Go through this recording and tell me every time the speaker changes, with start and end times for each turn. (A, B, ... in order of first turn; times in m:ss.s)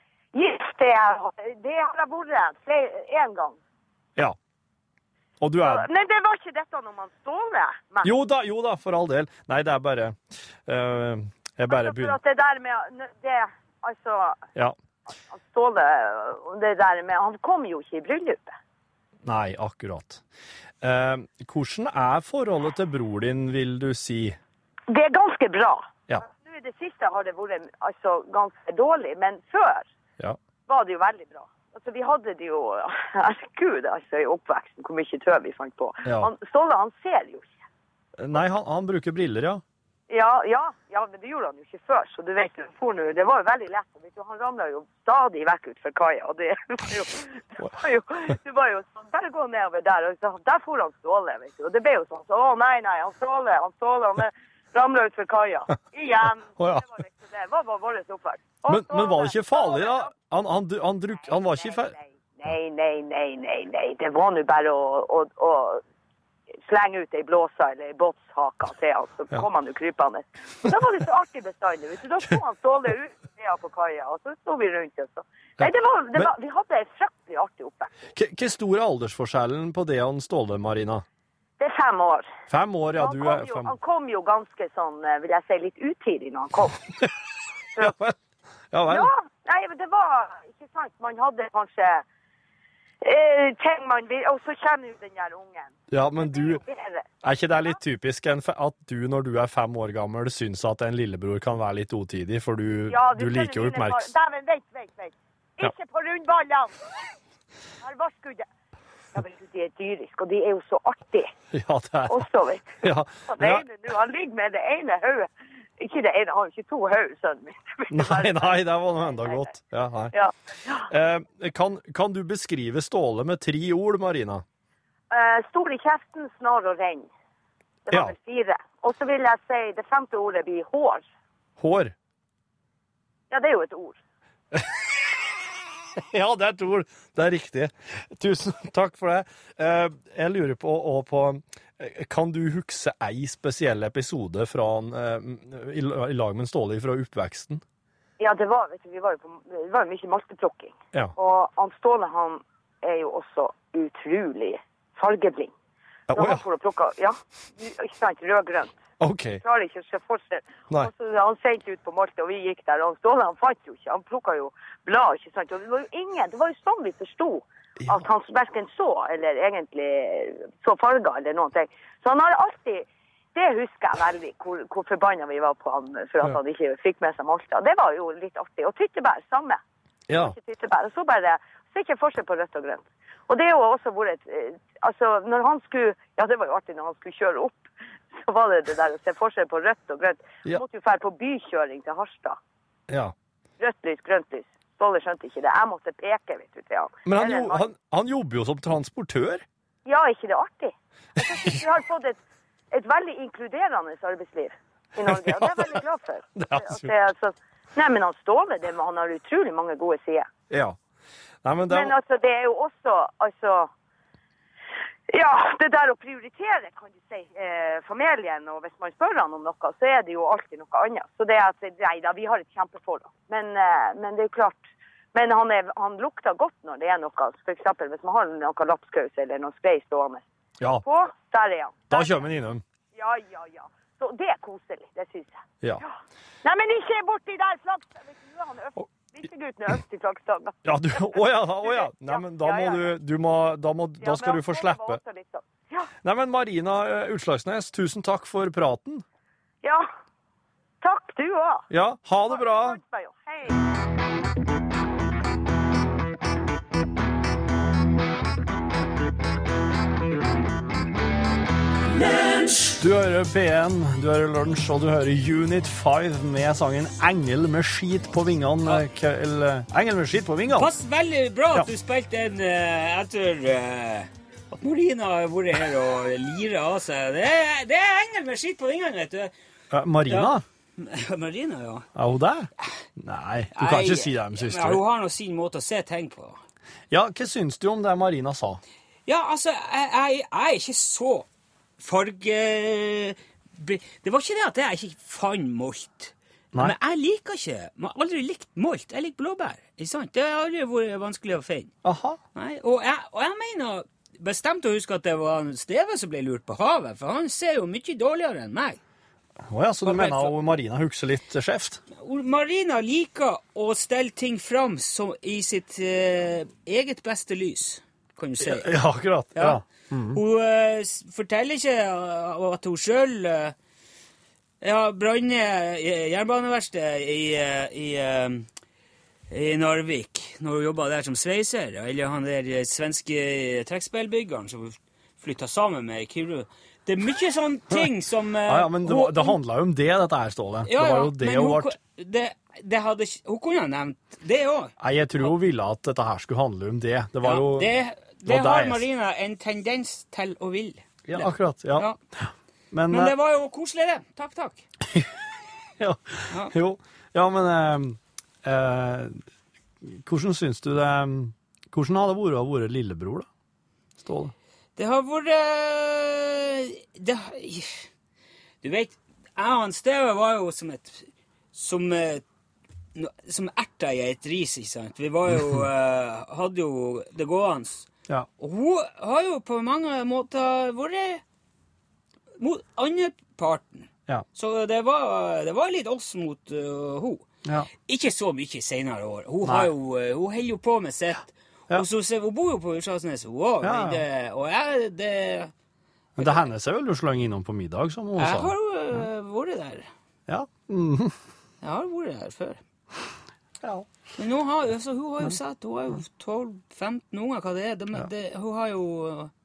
0:00.3-0:03.6 A
0:05.4-0:05.9 B
0:05.6-0:08.1 A
0:08.0-0:12.2 B
0:11.7-0:14.4 A
0:15.3-0:18.5 A
0:19.2-0:20.2 B
0:20.8-0:24.4 B
0:24.9-0:29.9 A
0:30.7-0:37.5 A
0:36.0-0:36.3 B
0:38.2-0:39.6 B
0:40.1-1:00.1 A
0:56.6-0:56.8 B
0:58.7-1:01.9 B
1:01.2-1:05.8 A
1:06.6-1:17.9 A
1:15.6-1:16.3 B
1:18.1-1:21.0 B
1:21.6-1:22.3 A
1:22.5-1:23.8 B
1:23.0-1:26.8 A
1:27.8-1:28.2 B
1:28.7-1:29.1 B
1:28.9-1:32.0 A
1:33.0-1:37.1 A
1:35.9-1:36.6 B
1:37.2-1:44.1 B
1:42.9-1:46.8 A
1:47.8-1:48.5 A
1:49.1-1:51.3 A
1:51.5-1:52.2 B
1:52.1-1:59.4 A
1:52.8-1:53.6 B
1:57.9-2:00.1 B
2:00.1-2:00.9 A
2:00.9-2:04.4 B
2:05.1-2:07.1 A
2:07.8-2:11.0 A
2:11.6-2:11.9 B
2:13.3-2:14.0 A
2:15.9-2:27.6 B
2:28.2-2:35.5 A
2:36.1-2:36.4 B
2:36.1-2:38.8 A
2:39.0-2:39.4 B
2:39.4-2:59.6 A
2:47.8-2:48.1 B
3:00.1-3:00.3 B
3:00.1-3:12.4 A
3:12.9-3:13.1 B
3:13.6-3:17.6 A
3:17.0-3:19.4 B
3:19.8-3:22.2 A
3:22.7-3:30.3 A
3:25.0-3:25.8 B
3:26.4-3:26.9 B
3:30.5-3:30.8 B
3:31.4-3:32.0 B
3:31.7-3:33.7 A
3:35.1-3:50.2 A
3:50.8-3:52.2 A
3:51.9-3:52.6 B
3:52.9-3:55.9 A
3:56.4-4:02.9 A
4:00.6-4:05.0 B
4:04.0-4:05.9 A
4:06.0-4:09.0 B
4:10.8-4:11.6 A
4:11.7-4:12.8 B
4:12.3-4:13.6 A
4:22.8-4:30.7 B
4:30.5-4:39.3 C
4:39.7-4:40.4 B
4:40.0-4:41.9 C
4:41.9-4:44.8 B
4:43.5-4:46.4 C
4:46.9-4:48.6 B
4:49.0-4:51.3 C
4:51.8-5:01.7 C
5:01.8-5:02.2 B
5:02.3-5:08.8 C
5:09.4-5:11.8 B
5:09.8-5:10.4 C
5:11.9-5:18.7 C
5:18.4-5:20.2 B
5:19.3-5:19.6 C
5:20.1-5:23.6 C
5:24.6-5:28.5 C
5:29.3-5:39.4 C
5:38.4-5:41.8 B
5:40.6-5:45.3 C
5:44.8-5:47.7 B
5:47.2-5:52.0 C
5:48.2-5:48.8 B
5:51.1-5:53.1 B
5:52.9-5:54.6 C
5:55.8-5:59.2 B
5:59.8-6:03.3 B
6:04.0-6:04.3 B
6:04.8-6:07.8 C
6:08.6-6:12.2 C
6:12.9-6:17.9 C
6:18.4-6:21.2 C
6:22.4-6:27.2 C
6:27.9-6:35.5 C
6:29.4-6:29.7 B
6:33.6-6:34.0 B
6:36.2-6:38.5 B
6:36.2-6:36.4 C
6:38.2-6:39.9 C
6:40.3-6:41.2 B
6:41.6-6:42.6 C
6:43.6-6:43.9 B
6:44.2-6:49.3 C